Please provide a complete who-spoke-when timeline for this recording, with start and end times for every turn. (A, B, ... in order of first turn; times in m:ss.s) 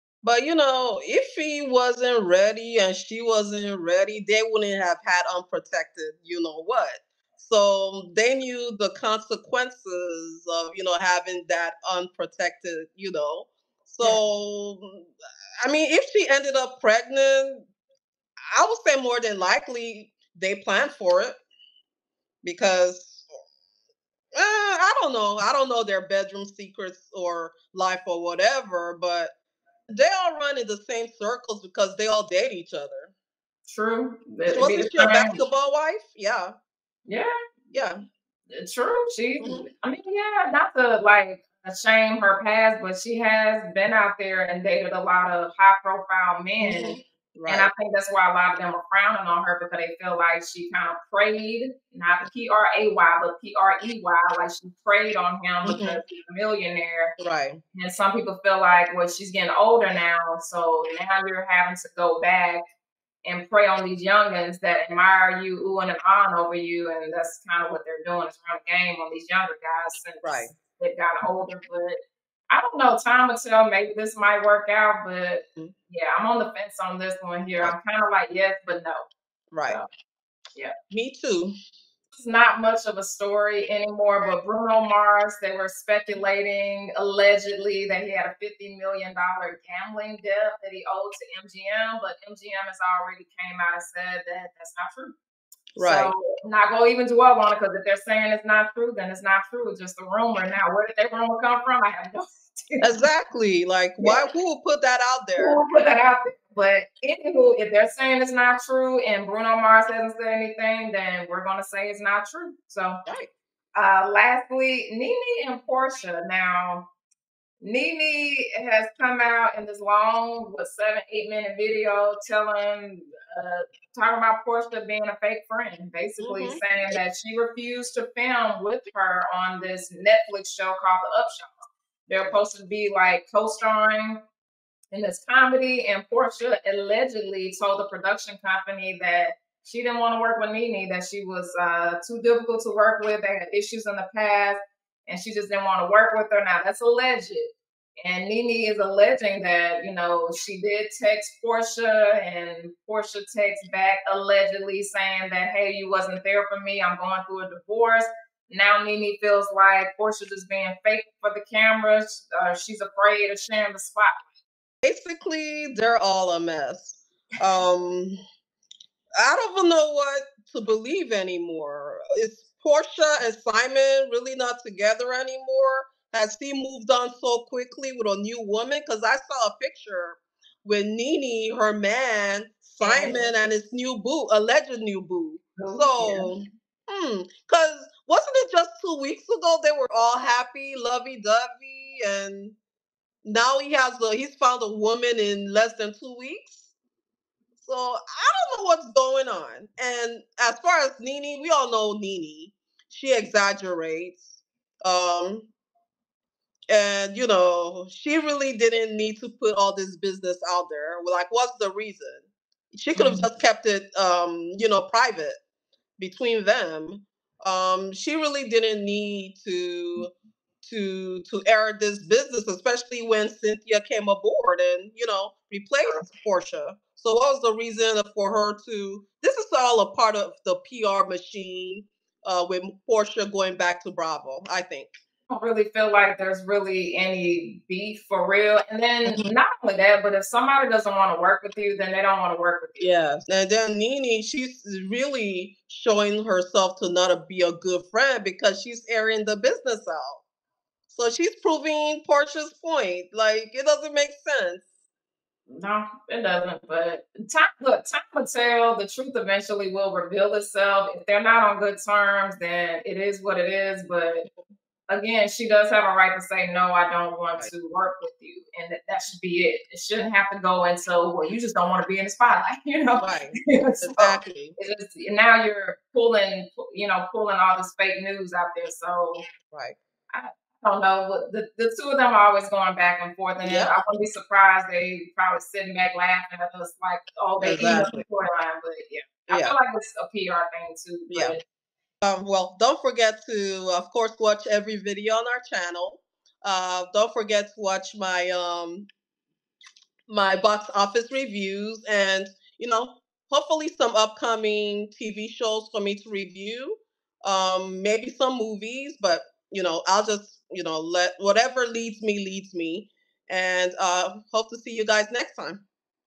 0:00.2-0:15.1 A
0:15.6-0:17.6 A
0:18.5-0:21.4 A
0:22.4-0:23.2 A
0:24.4-0:29.3 A
0:29.9-0:33.1 A
0:33.7-0:35.4 B
0:34.5-0:36.5 A
0:37.7-0:38.0 A
0:38.5-0:57.1 B
0:39.4-0:39.7 A
0:46.6-0:47.7 A
0:55.6-0:56.0 A
0:57.2-0:57.6 A
0:57.7-1:02.6 B
1:03.2-1:12.0 B
1:10.2-1:10.5 A
1:12.5-1:19.1 B
1:19.5-1:19.8 A
1:20.9-1:21.5 A
1:22.1-1:35.1 B
1:35.8-1:36.1 A
1:35.8-1:42.9 B
1:42.8-1:45.6 A
1:45.4-1:53.0 B
1:53.1-1:53.3 A
1:53.8-1:56.9 B
1:57.6-2:11.6 B
2:06.2-2:06.7 A
2:12.1-2:14.2 B
2:14.9-2:44.3 B
2:44.8-2:48.2 A
2:49.2-3:12.6 A
3:02.8-3:03.3 B
3:05.6-3:06.4 B
3:13.2-3:16.7 A
3:17.6-3:25.5 A
3:26.7-3:35.4 A
3:33.0-3:33.3 B
3:36.0-3:40.1 A
3:40.6-3:54.9 A
3:55.3-4:02.9 B
3:59.0-3:59.3 A
4:02.8-4:10.2 A
4:10.9-4:14.7 A
4:15.5-4:24.3 B
4:24.9-4:39.2 B
4:33.0-4:34.6 A
4:39.5-4:39.8 A
4:40.1-4:51.4 B
4:43.4-4:43.7 A
4:47.4-4:48.0 A
4:49.3-4:49.6 A
4:51.1-4:51.4 A
4:52.0-4:58.9 A
5:00.1-5:15.6 A